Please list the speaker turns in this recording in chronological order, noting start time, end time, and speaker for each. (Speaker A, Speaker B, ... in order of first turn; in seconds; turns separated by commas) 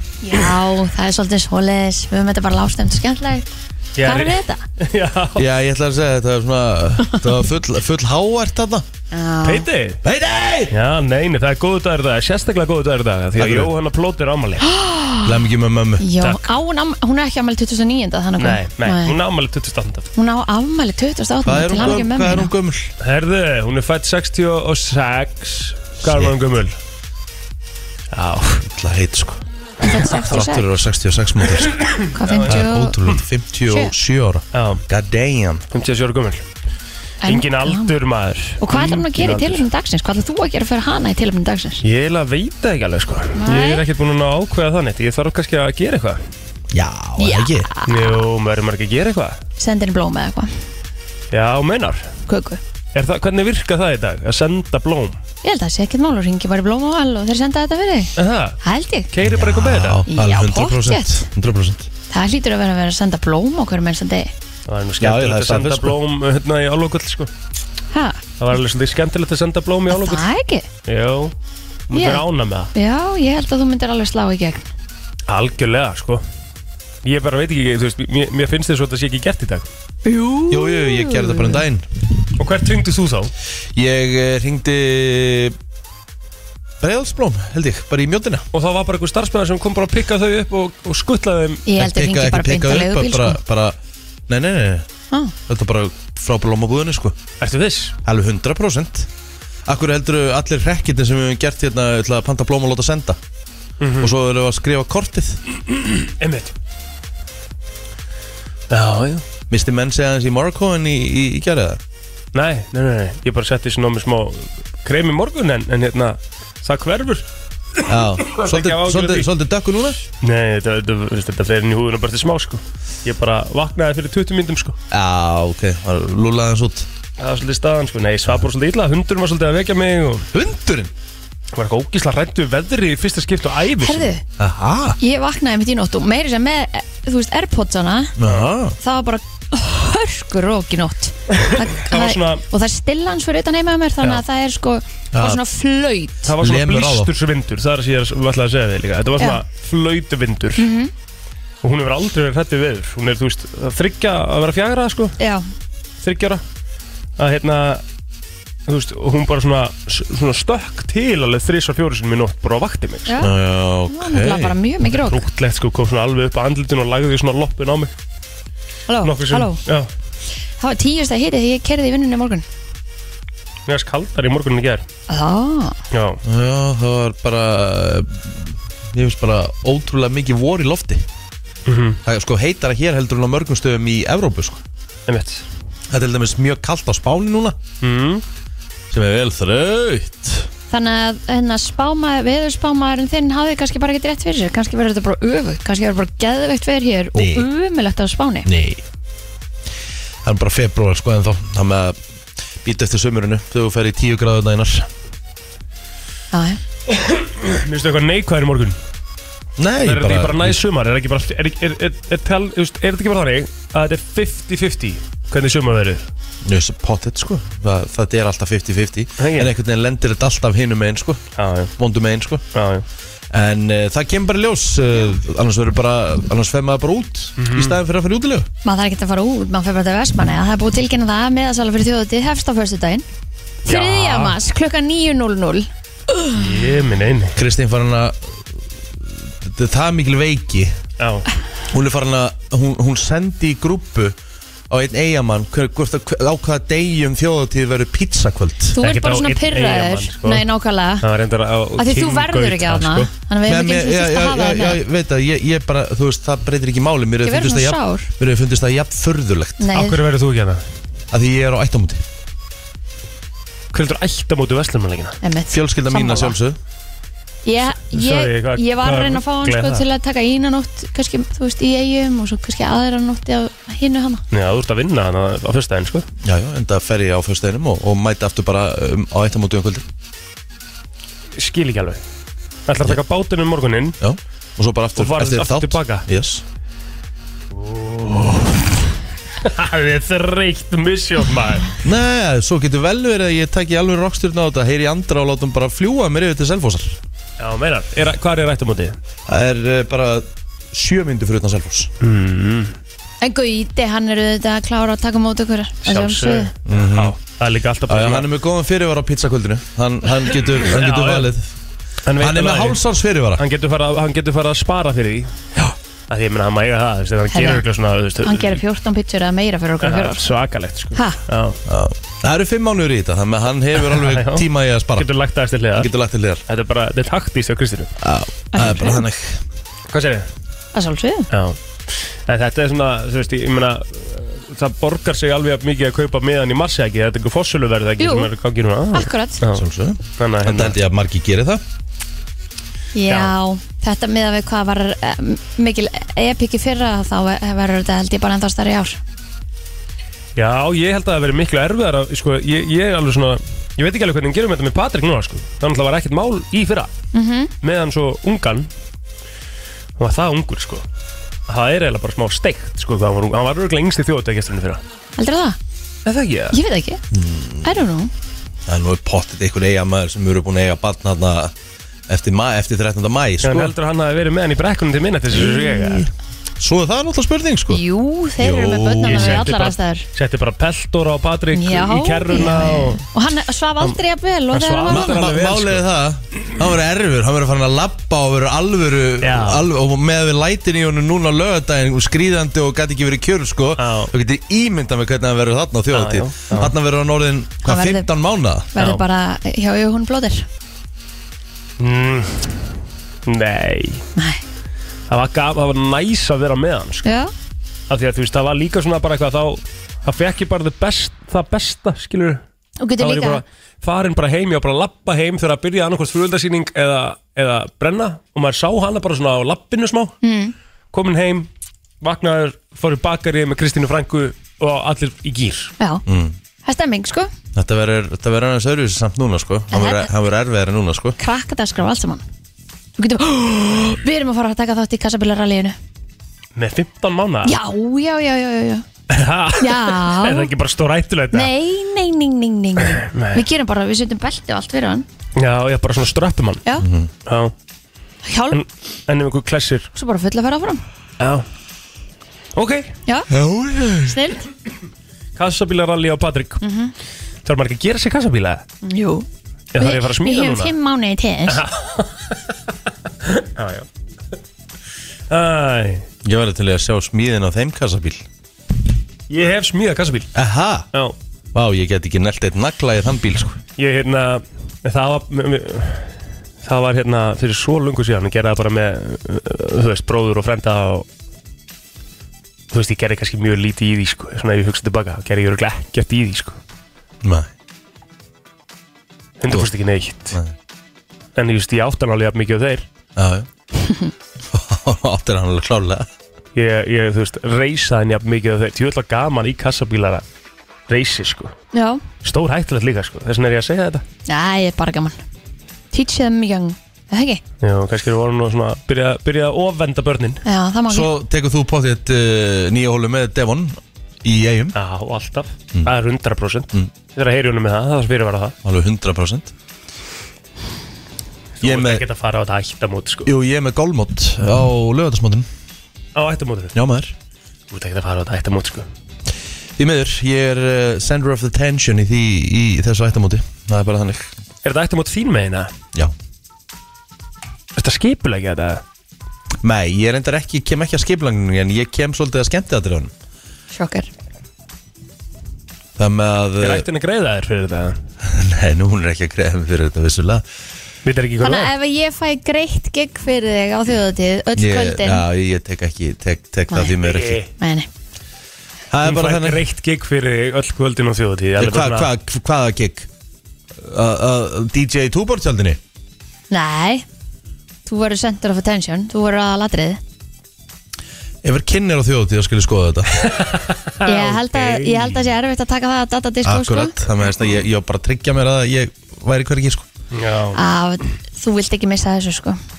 Speaker A: 0.2-3.5, Speaker B: 4.0-5.4, Speaker A: 4.0-4.6, Speaker C: 5.3-8.8, Speaker A: 9.1-9.7, Speaker B: 9.4-10.0, Speaker C: 10.0-10.7, Speaker B: 10.7-14.7, Speaker C: 13.4-13.7, Speaker A: 14.6-15.4, Speaker C: 15.2-16.0, Speaker A: 16.0-19.2, Speaker B: 16.2-16.4, Speaker B: 18.4-20.0, Speaker A: 20.2-22.5, Speaker C: 21.4-22.9, Speaker B: 23.0-26.8, Speaker C: 26.0-26.3, Speaker B: 28.1-28.6, Speaker C: 28.6-29.4, Speaker A: 29.8-30.7, Speaker B: 29.8-30.4, Speaker C: 30.1-31.8, Speaker B: 31.8-32.8, Speaker A: 32.1-33.0, Speaker C: 32.5-35.6, Speaker B: 34.5-34.8, Speaker B: 35.7-36.4, Speaker A: 37.2-37.9, Speaker B: 37.2-39.6, Speaker A: 38.6-41.8, Speaker B: 41.8-46.2, Speaker A: 43.4-43.8, Speaker C: 46.7-47.7, Speaker A: 47.2-48.2, Speaker B: 47.9-49.4, Speaker A: 49.6-50.5, Speaker B: 51.3-52.1, Speaker A: 52.3-52.6, Speaker B: 52.9-55.2, Speaker A: 55.4-59.1, Speaker B: 58.2-58.6, Speaker B: 59.1-60.0, Speaker C: 59.2-61.9, Speaker A: 60.1-61.2, Speaker A: 62.1-64.3, Speaker B: 64.7-67.3, Speaker C: 65.0-66.0, Speaker A: 67.9-68.2, Speaker B: 68.4-70.3, Speaker A: 69.9-70.7, Speaker B: 70.8-71.3, Speaker B: 71.9-72.7, Speaker A: 71.9-72.2, Speaker A: 72.7-74.6, Speaker B: 75.3-76.2, Speaker B: 77.0-79.7, Speaker A: 80.0-81.6, Speaker C: 80.5-81.9, Speaker B: 82.4-83.3, Speaker C: 83.8-85.5, Speaker C: 86.8-88.4, Speaker B: 88.5-91.6, Speaker A: 91.7-93.4, Speaker C: 91.8-93.8, Speaker C: 94.3-94.9, Speaker C: 95.5-97.2, Speaker B: 97.4-97.9, Speaker C: 98.0-99.1, Speaker C: 99.7-103.2, Speaker B: 103.8-104.1, Speaker C: 104.0-105.4, Speaker B: 105.7-106.5, Speaker B: 108.7-109.2, Speaker C: 109.5-111.8, Speaker B: 112.3-117.2, Speaker C: 117.8-120.0, Speaker B: 118.2-119.3, Speaker B: 120.1-124.8, Speaker C: 124.9-126.9, Speaker B: 127.2-130.3, Speaker C: 130.3-130.9, Speaker B: 131.5-134.1, Speaker A: 133.8-134.2, Speaker C: 134.4-135.0, Speaker A: 135.0-138.1, Speaker C: 138.2-138.8, Speaker A: 138.8-146.3, Speaker B: 141.3-142.4, Speaker C: 145.1-145.4, Speaker B: 146.2-150.7, Speaker C: 146.4-147.1, Speaker A: 150.6-150.9, Speaker B: 151.6-155.2, Speaker A: 155.2-155.4, Speaker B: 156.0-156.4, Speaker B: 157.2-157.8, Speaker B: 158.7-163.2, Speaker C: 163.2-164.5, Speaker A: 163.9-165.2, Speaker B: 164.8-167.9, Speaker A: 168.9-169.6, Speaker B: 169.0-169.9, Speaker A: 170.6-172.4, Speaker B: 173.7-174.8, Speaker A: 175.1-175.8, Speaker B: 175.9-176.2, Speaker C: 176.2-181.0, Speaker B: 181.7-182.0, Speaker C: 182.0-184.6, Speaker B: 185.1-185.4, Speaker C: 185.9-187.6, Speaker B: 187.8-188.2, Speaker C: 188.9-190.5, Speaker A: 190.7-198.5, Speaker C: 197.1-197.4, Speaker C: 198.4-198.8, Speaker C: 200.2-202.0, Speaker C: 202.6-204.9, Speaker A: 206.3-206.6, Speaker B: 206.9-208.8, Speaker C: 209.6-210.6, Speaker B: 209.8-216.1, Speaker C: 216.4-221.2, Speaker B: 219.2-219.5, Speaker B: 221.3-221.7, Speaker C: 221.8-222.4, Speaker B: 222.5-222.8, Speaker C: 223.3-228.5, Speaker B: 227.4-227.8, Speaker A: 228.6-233.0, Speaker A: 233.6-235.7, Speaker B: 233.7-234.4, Speaker B: 236.3-237.3, Speaker C: 237.3-238.4, Speaker C: 239.0-240.8, Speaker B: 241.0-241.2, Speaker C: 241.7-244.1, Speaker C: 244.7-248.8, Speaker A: 248.8-251.1, Speaker B: 248.8-250.5, Speaker B: 251.0-253.1, Speaker A: 251.8-254.8, Speaker C: 253.4-259.6, Speaker A: 257.2-258.1, Speaker A: 259.6-260.0, Speaker B: 259.7-260.6, Speaker C: 261.1-262.0, Speaker B: 263.7-265.2, Speaker A: 265.2-266.4, Speaker C: 265.5-266.6, Speaker A: 267.4-274.2, Speaker B: 267.8-269.8, Speaker B: 274.3-276.1, Speaker C: 276.2-279.9, Speaker B: 281.3-282.0, Speaker B: 282.7-284.0, Speaker C: 284.0-286.4, Speaker B: 284.9-286.1, Speaker B: 287.5-288.7, Speaker B: 289.4-291.7, Speaker C: 291.8-297.0, Speaker B: 297.4-299.0, Speaker C: 299.3-301.9, Speaker B: 302.0-302.7, Speaker A: 303.2-306.5, Speaker B: 305.8-308.3, Speaker C: 306.6-307.1, Speaker C: 307.9-311.5, Speaker B: 310.5-311.3, Speaker B: 312.1-312.8, Speaker C: 312.2-313.4, Speaker B: 313.4-315.4, Speaker B: 316.1-318.6, Speaker A: 317.3-317.6, Speaker A: 318.2-320.3, Speaker B: 319.8-321.6, Speaker A: 320.9-321.2, Speaker C: 321.6-325.1, Speaker B: 323.8-325.9, Speaker C: 325.7-326.4, Speaker B: 326.5-327.9, Speaker C: 328.0-329.4, Speaker A: 328.5-329.0, Speaker B: 329.9-330.3, Speaker A: 330.7-331.3, Speaker B: 331.3-339.6, Speaker A: 338.0-338.3, Speaker A: 338.9-339.4, Speaker C: 339.5-341.6, Speaker B: 340.2-340.8, Speaker A: 342.9-349.0, Speaker B: 350.4-356.9, Speaker A: 357.1-357.5, Speaker B: 357.6-358.7, Speaker B: 360.0-360.9, Speaker B: 361.5-364.8, Speaker A: 365.2-365.6, Speaker B: 366.0-366.6, Speaker A: 366.5-367.0, Speaker C: 367.1-367.8, Speaker A: 367.6-368.1, Speaker C: 368.7-371.5, Speaker C: 372.1-373.7, Speaker B: 373.4-376.1, Speaker C: 375.4-375.8, Speaker A: 375.5-375.9, Speaker C: 376.6-377.8, Speaker A: 377.7-380.1, Speaker C: 378.4-379.5, Speaker B: 379.0-383.0, Speaker A: 381.5-385.2, Speaker B: 384.5-385.8, Speaker C: 384.9-398.7, Speaker B: 389.2-389.6, Speaker B: 393.8-394.1, Speaker B: 395.9-396.7, Speaker A: 397.6-398.1, Speaker A: 398.7-400.4, Speaker B: 398.8-399.0, Speaker B: 401.8-402.5, Speaker B: 403.2-404.1, Speaker A: 404.2-404.4, Speaker B: 405.1-407.1, Speaker A: 407.0-407.3, Speaker B: 407.9-412.4, Speaker A: 412.8-413.4, Speaker B: 413.0-420.1, Speaker A: 420.2-420.5, Speaker B: 420.9-421.5, Speaker B: 422.0-425.7, Speaker C: 426.1-426.4, Speaker A: 426.6-427.3, Speaker C: 427.5-431.1, Speaker A: 429.7-430.1, Speaker A: 431.2-432.2, Speaker A: 433.0-435.8, Speaker B: 436.6-437.6, Speaker A: 437.4-438.8, Speaker B: 439.1-441.5, Speaker A: 439.6-440.5, Speaker A: 441.3-445.0, Speaker B: 442.8-443.4, Speaker B: 445.4-446.6, Speaker C: 446.8-447.1, Speaker B: 447.2-447.5, Speaker A: 448.2-448.6, Speaker B: 448.5-449.9, Speaker A: 449.9-450.8, Speaker B: 451.2-451.4, Speaker B: 452.5-452.9, Speaker C: 453.3-454.1, Speaker A: 454.0-454.4, Speaker B: 455.4-456.6, Speaker A: 456.6-456.9, Speaker B: 457.4-458.6, Speaker A: 458.8-459.2, Speaker B: 459.7-460.7, Speaker A: 459.8-461.6, Speaker B: 461.5-462.4, Speaker B: 463.2-463.9, Speaker B: 465.3-466.1, Speaker C: 466.2-468.2, Speaker B: 469.3-470.3, Speaker C: 470.3-470.9, Speaker C: 471.5-473.6, Speaker B: 473.8-481.1, Speaker B: 482.7-486.6, Speaker C: 487.2-487.5, Speaker B: 489.4-490.4, Speaker B: 491.3-492.9, Speaker C: 493.1-493.5, Speaker C: 494.5-496.1, Speaker B: 496.5-500.2, Speaker B: 500.9-501.5, Speaker A: 501.7-502.0, Speaker B: 502.2-504.0, Speaker A: 504.3-505.2, Speaker A: 505.9-507.4, Speaker B: 507.6-510.4, Speaker A: 510.4-511.1, Speaker C: 510.9-514.8, Speaker B: 514.7-518.6, Speaker C: 518.6-519.5, Speaker B: 521.6-523.3, Speaker C: 521.6-522.0, Speaker C: 523.2-525.5, Speaker B: 526.1-526.7, Speaker C: 526.7-527.1, Speaker B: 527.7-528.9, Speaker C: 529.8-534.3, Speaker B: 534.6-535.7, Speaker B: 537.7-538.8, Speaker C: 539.6-543.1, Speaker A: 543.7-544.1, Speaker C: 546.0-546.9, Speaker B: 546.6-548.0, Speaker C: 548.2-550.4, Speaker B: 551.0-551.7, Speaker A: 551.4-555.2, Speaker C: 554.5-557.4, Speaker A: 556.7-557.0, Speaker B: 557.0-557.5, Speaker A: 557.6-557.9, Speaker C: 558.9-559.6, Speaker B: 559.0-562.1, Speaker C: 561.6-563.1, Speaker C: 563.7-565.8, Speaker A: 566.5-567.0, Speaker A: 567.9-570.0, Speaker C: 571.4-573.2, Speaker B: 573.2-575.3, Speaker A: 574.0-576.9, Speaker C: 576.4-579.9, Speaker B: 580.1-580.6, Speaker A: 580.5-582.6